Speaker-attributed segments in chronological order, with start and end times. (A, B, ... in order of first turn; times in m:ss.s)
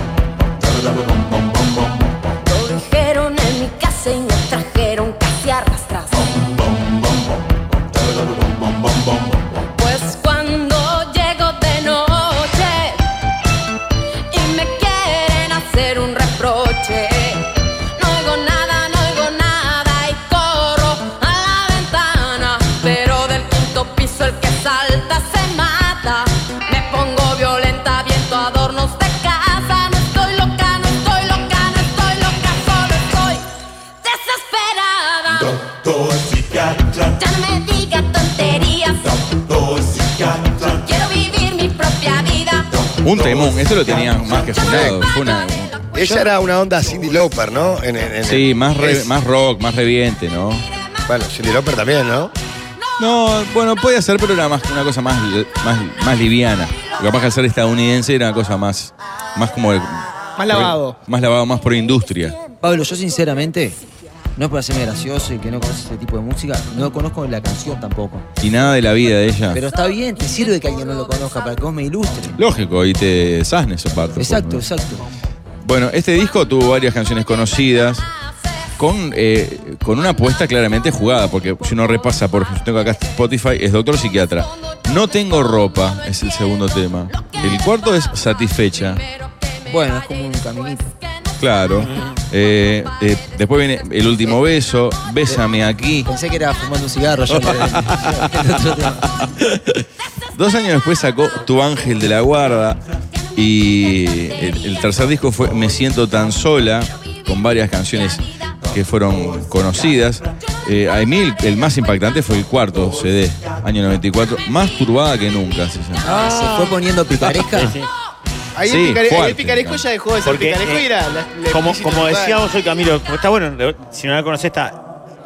0:02.4-0:06.4 A
0:09.8-0:13.0 A
0:14.3-0:33.4 A
0:34.0-0:42.9 A
0:43.0-0:45.9 B
0:43.2-0:43.5 C
0:44.5-0:45.0 C
0:45.9-0:49.1 C
0:48.2-0:50.7 B
0:51.1-0:52.3 C
0:53.0-1:02.4 B
1:00.4-1:01.0 D
1:02.6-1:03.8 E
1:04.4-1:08.3 E
1:08.4-1:09.6 B
1:09.5-1:12.4 E
1:12.4-1:14.6 B
1:14.2-1:15.0 E
1:15.6-1:18.0 B
1:18.8-1:29.0 B
1:29.6-1:30.9 E
1:31.4-1:36.1 B
1:31.8-1:32.2 F
1:36.0-1:39.1 E
1:37.3-1:39.8 B
1:40.3-1:42.8 B
1:43.3-1:56.1 B
1:56.0-1:57.8 E
1:57.6-1:57.9 F
1:58.6-2:02.4 D
1:58.6-1:59.8 B
2:00.2-2:00.9 F
2:01.5-2:04.8 F